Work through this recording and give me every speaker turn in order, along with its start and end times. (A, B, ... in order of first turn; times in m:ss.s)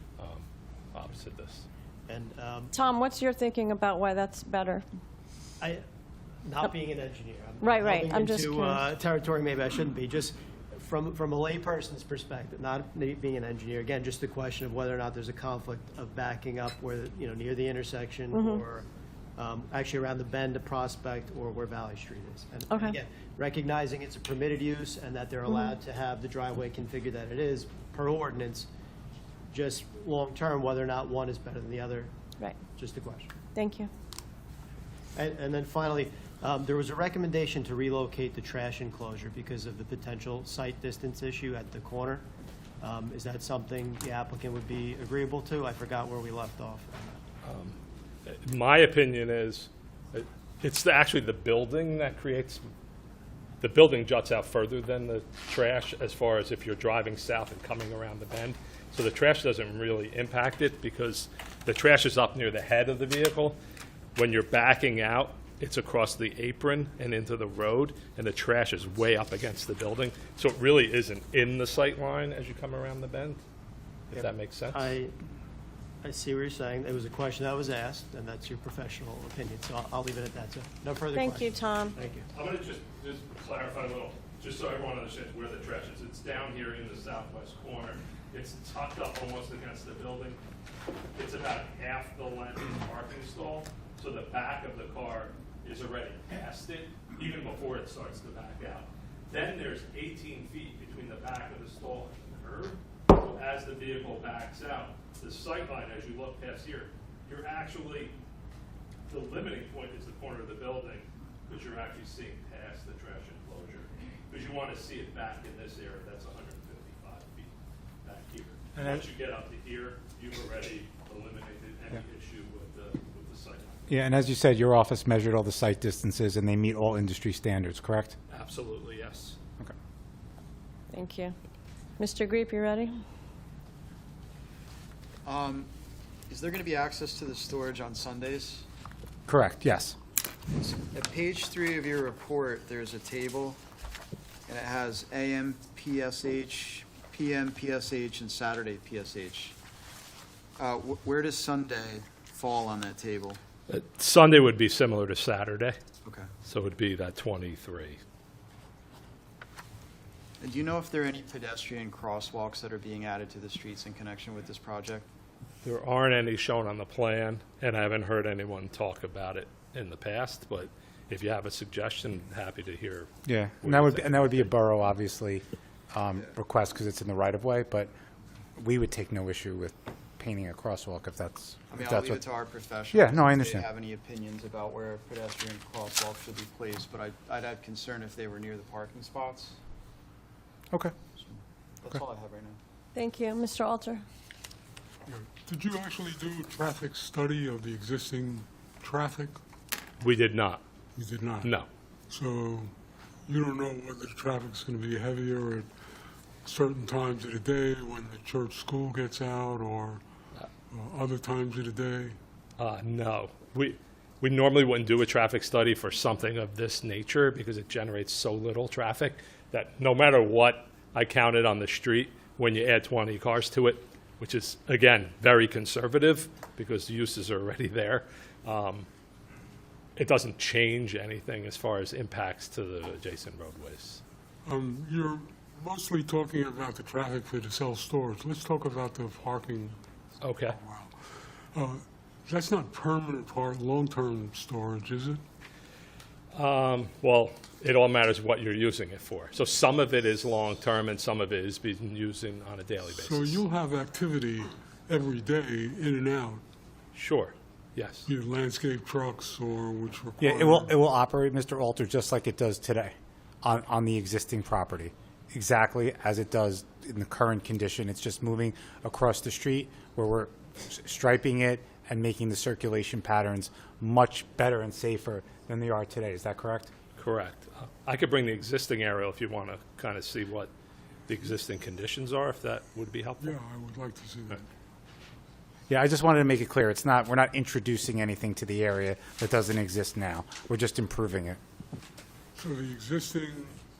0:00.2-0:01.7 A
0:02.1-0:02.7 B
0:02.7-0:04.8 C
0:06.4-0:18.9 B
0:07.6-0:08.8 C
0:18.3-0:18.6 C
0:19.4-0:28.7 B
0:22.7-0:23.0 C
0:29.5-0:32.1 B
0:32.7-0:33.3 B
0:33.6-0:33.9 C
0:35.2-0:42.2 B
0:42.8-0:47.2 B
0:47.4-0:47.8 A
0:48.3-0:52.7 A
0:53.6-1:03.6 A
1:04.2-1:13.4 A
1:14.1-1:15.1 B
1:14.1-1:14.9 A
1:16.0-1:22.3 B
1:21.2-1:21.9 C
1:22.3-1:30.4 A
1:31.2-1:48.2 A
1:49.1-1:57.5 A
1:58.0-2:03.9 A
1:58.8-1:59.1 D
2:03.9-2:08.2 D
2:08.3-2:09.4 A
2:10.9-2:11.4 C
2:12.0-2:13.0 C
2:15.2-2:15.7 E
2:16.3-2:18.6 E
2:19.3-2:20.0 D
2:20.6-2:23.6 E
2:24.5-2:29.6 E
2:30.6-2:33.4 E
2:33.7-2:35.8 A
2:36.4-2:38.0 A
2:40.4-2:45.1 E
2:45.6-2:53.1 A
2:53.3-2:57.9 D
2:53.6-2:54.5 A
2:58.6-3:02.2 D
3:01.7-3:09.6 E
3:02.9-3:03.7 D
3:11.2-3:12.6 E
3:13.0-3:14.0 C
3:15.1-3:19.4 F
3:20.0-3:20.6 A
3:21.0-3:21.5 F
3:21.4-3:21.7 A
3:22.1-3:22.7 F
3:23.3-3:25.7 F
3:26.4-3:30.0 F
3:30.7-3:32.2 F
3:32.6-3:48.9 A
3:50.0-3:54.0 A
3:54.4-3:59.8 F
4:00.2-4:00.6 A
4:00.4-4:00.9 F
4:01.5-4:05.2 F
4:06.3-4:13.4 A
4:12.9-4:16.4 F
4:16.9-4:18.1 A
4:18.1-4:20.7 F
4:20.2-4:36.7 D
4:37.0-4:40.5 A
4:41.1-4:43.4 A
4:43.2-4:44.4 F
4:45.7-4:51.4 D
4:52.4-4:53.6 F